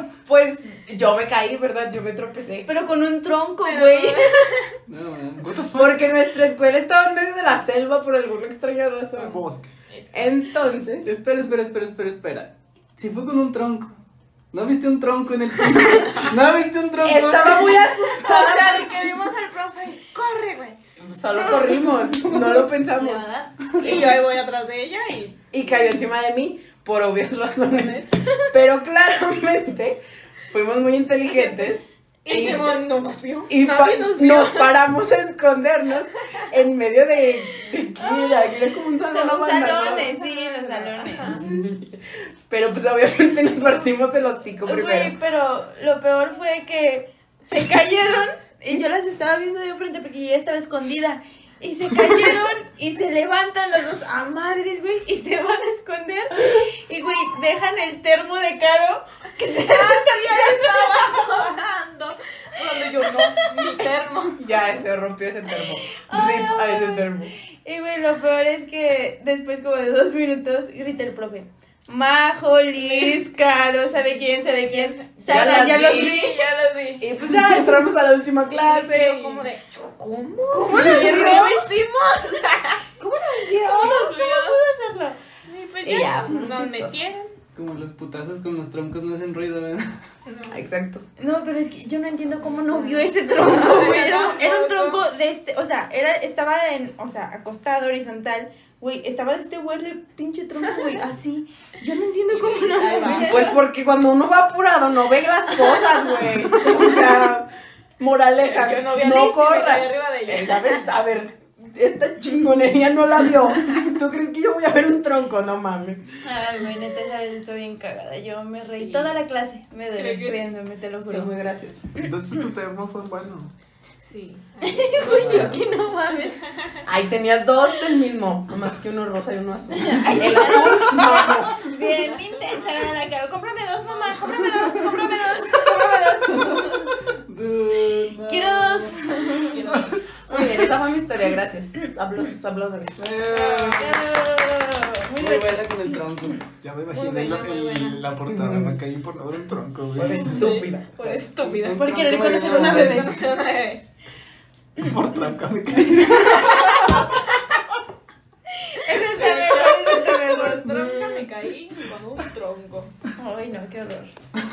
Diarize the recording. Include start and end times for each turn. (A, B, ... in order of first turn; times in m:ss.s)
0:00.2-0:02.7 A
0:02.6-0:04.6 B
0:03.6-0:04.7 C
0:04.9-0:05.5 D
0:05.4-0:06.1 E
0:05.7-0:09.4 A
0:09.1-0:10.3 C
0:09.2-0:09.7 E
0:10.1-0:11.1 A
0:11.0-0:14.0 D
0:14.5-0:18.0 D
0:15.9-0:16.3 C
0:17.0-0:19.1 A
0:18.1-0:20.8 C
0:21.0-0:23.3 A
0:21.3-0:22.4 C
0:22.9-0:23.9 B
0:23.6-0:25.9 C
0:25.5-0:32.9 A
0:27.7-0:28.5 C
0:31.2-0:31.7 C
0:32.2-0:34.8 C
0:33.5-0:45.2 A
0:39.0-0:41.4 B
0:41.0-0:41.4 C
0:44.6-1:01.4 B
0:59.6-1:04.4 C
1:03.0-1:03.6 B
1:04.4-1:07.3 A
1:05.9-1:07.1 B
1:07.6-1:16.4 B
1:12.8-1:13.2 C
1:14.6-1:17.6 C
1:15.3-1:16.4 A
1:17.0-1:19.5 A
1:18.5-1:23.0 C
1:20.5-1:21.7 A
1:20.5-1:21.5 B
1:23.0-1:25.2 B
1:23.5-1:24.6 C
1:25.4-1:27.4 C
1:25.8-1:27.0 A
1:27.5-1:29.9 D
1:30.2-1:30.6 C
1:30.5-1:31.0 A
1:31.2-1:43.6 B
1:32.4-1:35.0 C
1:42.3-1:43.5 C
1:43.2-1:56.1 A
1:48.4-1:50.8 C
1:56.2-2:01.3 B
1:58.6-1:59.2 C
1:59.9-2:00.4 C
2:01.0-2:01.9 A
2:02.0-2:03.5 E
2:04.0-2:05.6 C
2:04.6-2:06.4 B
2:05.1-2:05.6 E
2:06.3-2:06.8 C
2:06.8-2:11.6 A
2:09.7-2:16.9 B
2:11.8-2:12.9 C
2:13.8-2:15.6 C
2:16.3-2:19.1 D
2:18.2-2:19.6 B
2:19.4-2:20.2 C
2:19.7-2:20.7 E
2:20.2-2:23.0 A
2:23.0-2:24.0 E
2:23.3-2:25.6 B
2:25.2-2:26.4 D
2:26.6-2:30.5 E
2:26.9-2:28.1 C
2:28.3-2:28.8 A
2:29.9-2:30.9 A
2:30.2-2:30.6 D
2:30.3-2:33.8 C
2:31.4-2:33.2 D
2:31.6-2:33.2 B
2:34.8-2:37.0 E
2:36.2-2:37.5 C
2:38.6-2:41.0 B
2:38.9-2:42.9 C
2:43.2-2:44.1 B